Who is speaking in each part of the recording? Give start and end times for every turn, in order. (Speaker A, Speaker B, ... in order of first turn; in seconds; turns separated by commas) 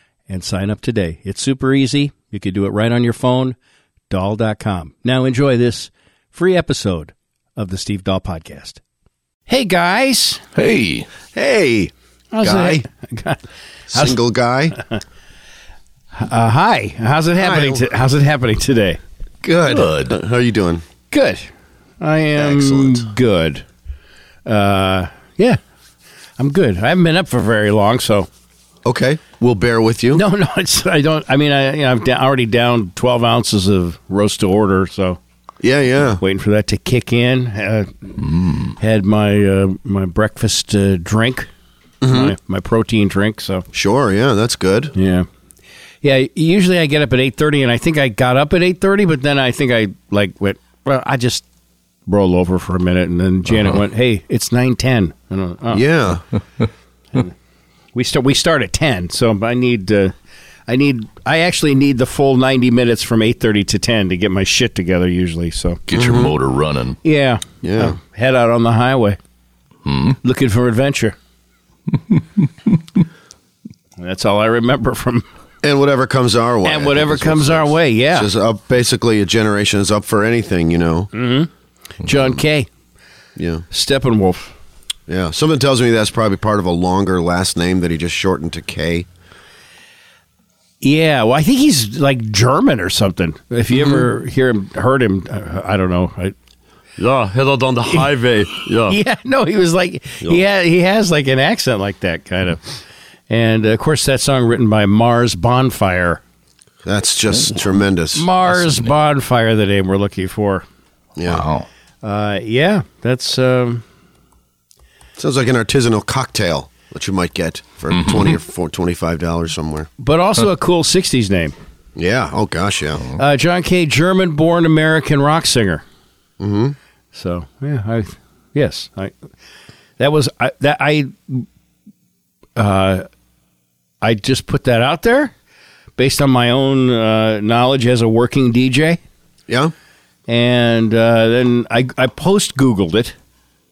Speaker A: 0.3-3.6, Speaker A: 4.1-8.8, Speaker A: 9.5-10.4, Speaker B: 10.6-11.1, Speaker C: 11.3-12.8, Speaker A: 12.3-13.4, Speaker C: 13.9-14.8, Speaker A: 13.9-14.2, Speaker A: 16.1-19.0, Speaker C: 17.4-17.9, Speaker C: 19.4-20.8, Speaker B: 19.7-20.1, Speaker A: 21.1-21.5, Speaker A: 22.0-23.6, Speaker C: 22.4-23.1, Speaker A: 24.5-25.6, Speaker A: 26.4-28.3, Speaker C: 28.9-30.2, Speaker A: 30.1-35.2, Speaker C: 35.6-36.2, Speaker A: 36.2-37.9, Speaker B: 38.2-38.7, Speaker A: 38.8-41.5, Speaker C: 42.0-42.4, Speaker A: 42.1-43.7, Speaker C: 43.7-44.9, Speaker A: 45.0-45.3, Speaker A: 46.0-51.4, Speaker A: 52.1-55.9, Speaker C: 55.7-56.2, Speaker A: 58.0-60.1, Speaker A: 60.7-65.8, Speaker B: 65.9-67.0, Speaker C: 65.9-66.3, Speaker A: 67.0-69.2, Speaker C: 67.6-68.0, Speaker B: 69.8-70.2, Speaker A: 70.2-71.2, Speaker A: 74.0-75.2, Speaker C: 75.6-81.1, Speaker A: 76.6-78.3, Speaker A: 81.1-81.5, Speaker A: 82.0-82.7, Speaker C: 83.4-83.7, Speaker A: 83.7-84.5, Speaker C: 85.1-89.1, Speaker A: 90.8-96.3, Speaker C: 93.7-94.0, Speaker C: 97.0-99.0, Speaker A: 98.8-102.7, Speaker A: 103.3-106.2, Speaker C: 106.8-108.3, Speaker A: 108.1-110.7, Speaker B: 108.5-108.9, Speaker C: 111.2-111.5, Speaker B: 111.3-111.7, Speaker A: 112.0-113.8, Speaker C: 115.2-119.9, Speaker B: 117.9-118.3, Speaker A: 120.0-121.5, Speaker C: 122.0-123.0, Speaker A: 123.2-125.8, Speaker C: 126.4-126.8, Speaker A: 127.1-129.2, Speaker A: 130.0-131.5, Speaker A: 132.6-133.1, Speaker A: 134.0-135.3, Speaker A: 136.0-139.0, Speaker C: 139.5-139.7, Speaker A: 140.3-143.2